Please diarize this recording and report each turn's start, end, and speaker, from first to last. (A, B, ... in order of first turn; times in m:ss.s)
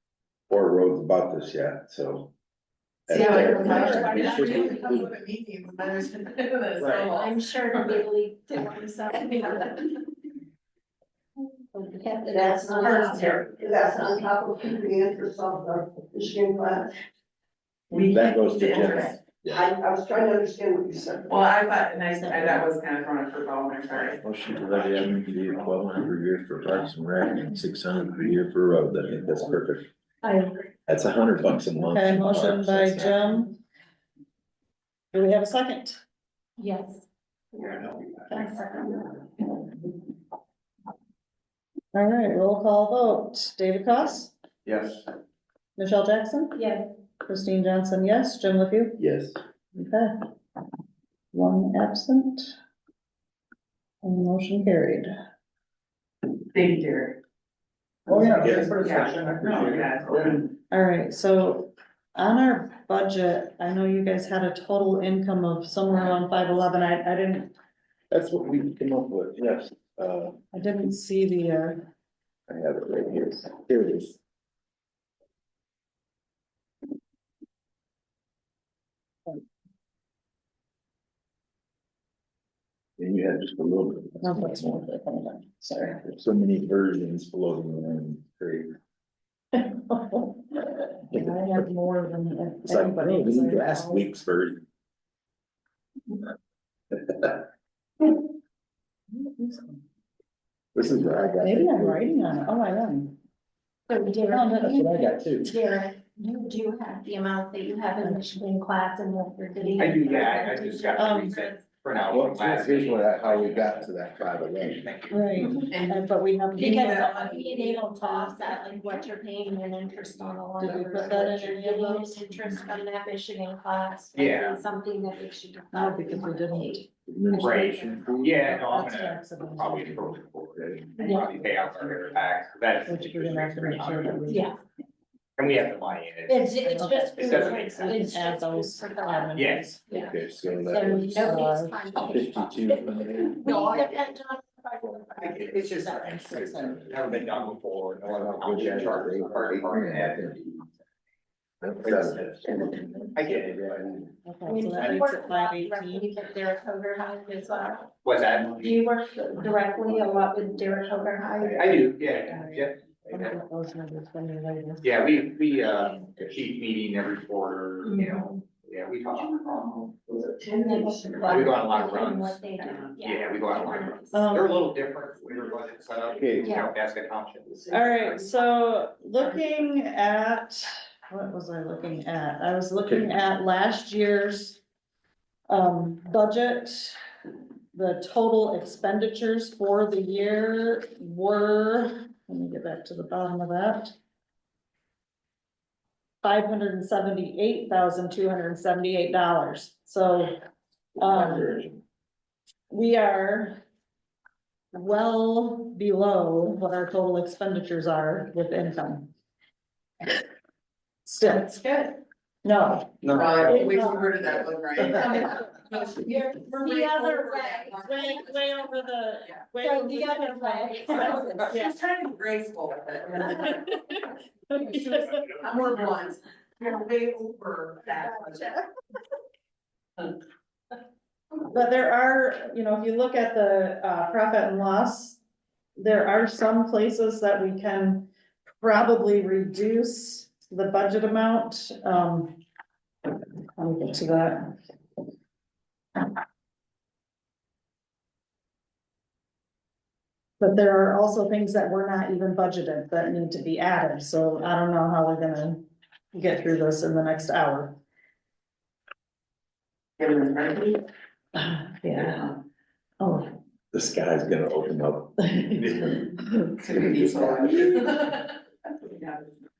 0:00.5-0:02.3 A
0:03.1-0:05.1 A
0:03.1-0:08.0 B
0:03.2-0:04.9 C
0:03.3-0:04.9 D
0:07.0-0:09.8 D
0:11.7-0:13.5 D
0:12.3-0:16.9 C
0:13.1-0:13.3 B
0:17.9-0:19.1 B
0:17.9-0:19.6 A
0:18.6-0:21.6 C
0:21.3-0:24.2 B
0:22.1-0:22.6 E
0:24.1-0:29.9 A
0:30.2-0:30.5 D
0:30.9-0:33.3 A
0:31.8-0:33.6 E
0:35.1-0:36.0 E
0:36.6-0:37.0 D
0:37.6-0:39.2 D
0:41.9-0:44.3 E
0:45.8-0:49.0 E
0:46.5-0:46.9 D
0:49.0-0:49.4 A
0:49.7-0:50.1 E
0:51.3-0:52.5 E
0:54.0-0:55.1 E
0:56.5-0:57.2 B
0:58.1-0:59.8 E
0:58.1-0:59.3 A
0:58.8-1:00.0 F
0:58.8-1:00.5 B
1:00.6-1:07.5 E
1:08.1-1:10.4 A
1:10.5-1:11.8 E
1:12.5-1:14.2 A
1:23.0-1:24.8 A
1:24.2-1:26.0 E
1:26.0-1:28.8 A
1:29.5-1:34.1 E
1:32.6-1:34.6 A
1:39.1-1:39.8 E
1:40.7-1:42.0 A
1:41.4-1:43.2 E
1:43.9-1:51.6 D
1:44.3-1:44.9 E
1:44.6-1:45.5 A
1:49.8-1:55.4 F
1:50.9-1:51.5 E
1:52.1-1:54.9 A
1:55.1-1:59.0 E
1:55.7-1:56.0 B
1:56.6-2:08.0 D
1:56.6-1:57.4 B
2:00.6-2:01.3 A
2:00.6-2:02.2 E
2:04.1-2:04.6 F
2:05.7-2:06.8 E
2:07.1-2:08.4 A
2:07.3-2:14.4 F
2:08.4-2:10.2 E
2:10.6-2:10.8 A
2:11.0-2:11.4 D
2:12.9-2:14.5 E
2:14.3-2:14.6 D
2:15.4-2:18.1 F
2:16.3-2:25.3 D
2:16.6-2:19.8 E
2:19.3-2:19.7 F
2:19.9-2:23.7 A
2:20.8-2:21.8 E
2:25.1-2:30.5 F
2:25.8-2:26.2 D
2:26.1-2:26.7 E
2:26.6-2:27.2 A
2:28.0-2:30.4 A
2:31.6-2:34.1 A
2:31.8-2:32.6 F
2:33.1-2:33.9 F
2:34.2-2:36.1 E
2:34.4-2:37.9 D
2:38.0-2:38.8 F
2:38.6-2:41.9 D
2:41.3-2:43.4 F
2:42.2-2:44.9 E
2:44.8-2:49.9 F
2:47.8-2:48.2 D
2:49.5-2:51.5 C
2:50.5-2:54.3 D
2:51.2-2:57.5 F
2:54.1-2:54.8 E
2:56.1-2:56.6 A
2:56.4-2:56.7 D
2:57.5-2:58.4 C
2:57.7-3:04.6 E
3:02.8-3:03.1 A
3:05.5-3:07.0 E
3:07.7-3:13.9 E
3:16.2-3:20.3 E
3:21.0-3:21.5 E
3:21.0-3:21.8 A
3:22.7-3:23.6 E
3:24.7-3:29.1 E
3:31.0-3:31.6 E
3:31.5-3:31.9 B
3:32.4-3:35.4 E
3:33.0-3:34.4 F
3:33.1-3:38.3 B
3:35.7-3:38.3 D
3:37.7-3:41.6 E
3:39.6-3:41.6 D
3:40.9-3:43.7 B
3:43.2-3:43.7 E
3:44.5-3:45.3 E
3:44.5-3:48.6 B
3:48.0-3:48.6 E
3:51.5-3:55.2 E
3:55.8-4:02.4 E
4:03.6-4:04.5 E
4:10.4-4:17.8 E
4:20.0-4:20.8 B
4:21.3-4:22.3 E
4:23.0-4:23.4 E
4:23.7-4:25.2 A
4:25.2-4:26.6 E
4:26.6-4:28.3 B
4:26.7-4:27.8 A
4:27.4-4:28.0 E
4:28.9-4:29.2 B